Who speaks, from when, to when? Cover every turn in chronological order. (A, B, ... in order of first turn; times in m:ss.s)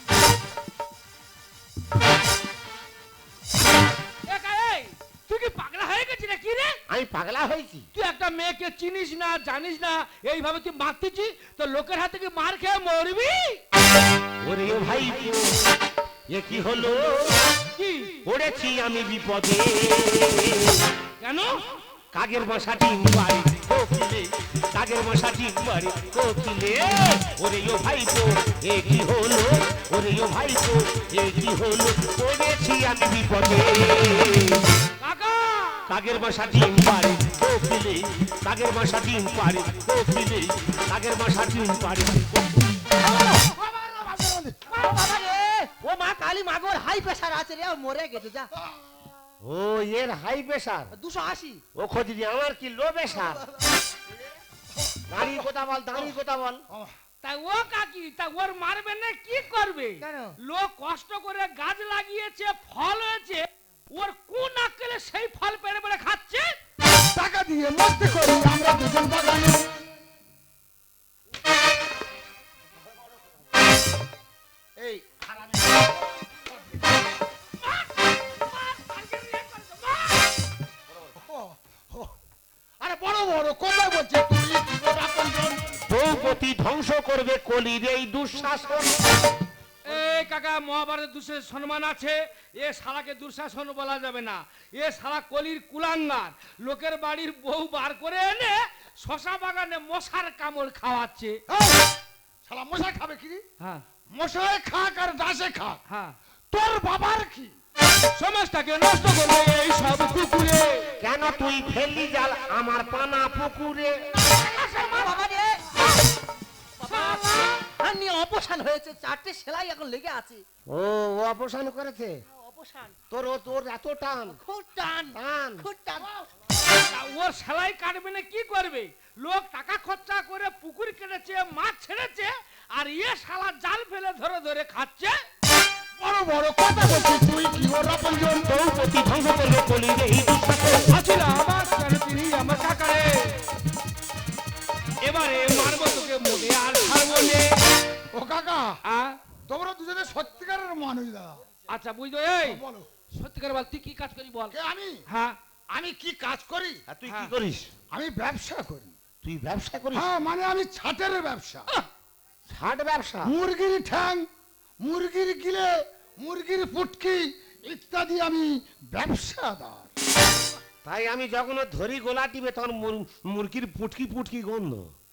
0:04.3-0:06.8 A
0:06.9-0:07.9 B
0:07.9-0:13.6 A
0:14.4-0:15.5 B
0:16.3-0:17.4 B
0:17.8-0:18.2 A
0:18.2-0:20.8 B
0:21.2-0:21.6 A
0:22.1-0:34.6 B
0:35.0-0:35.9 A
0:35.9-0:42.7 B
0:43.1-0:44.8 C
0:44.7-0:48.5 D
0:48.6-0:49.1 C
0:49.4-0:50.9 B
0:50.9-0:51.6 D
0:51.7-0:53.4 B
0:55.1-0:56.6 B
0:56.7-0:57.0 C
0:57.2-1:06.5 A
1:00.0-1:00.4 D
1:07.1-1:09.6 C
1:14.8-1:15.8 B
1:17.6-1:20.3 A
1:21.1-1:22.2 C
1:22.8-1:25.8 C
1:25.9-1:29.0 B
1:29.8-1:41.4 A
1:41.5-1:41.8 C
1:42.4-1:43.4 C
1:44.1-1:45.8 C
1:45.9-1:46.1 A
1:46.5-1:47.6 C
1:48.2-1:50.7 A
1:51.0-1:54.1 B
1:54.4-1:55.1 A
1:54.4-1:55.8 D
1:56.8-2:00.4 D
1:56.9-1:57.5 A
2:00.7-2:02.2 B
2:02.4-2:02.9 D
2:03.1-2:04.4 B
2:04.3-2:06.1 D
2:05.1-2:05.6 B
2:06.8-2:15.2 A
2:16.0-2:18.5 C
2:18.4-2:20.9 B
2:20.9-2:23.4 A
2:25.0-2:27.5 A
2:28.1-2:28.8 C
2:28.9-2:29.2 A
2:29.5-2:31.4 C
2:31.7-2:34.6 A
2:32.4-2:32.9 C
2:34.5-2:35.0 C
2:35.1-2:35.4 A
2:35.7-2:36.8 C
2:36.9-2:37.7 B
2:37.1-2:37.3 A
2:37.9-2:38.9 C
2:39.2-2:40.1 B
2:39.9-2:41.7 C
2:42.5-2:43.3 B
2:43.2-2:44.3 C
2:44.8-2:49.9 C
2:50.8-2:54.9 B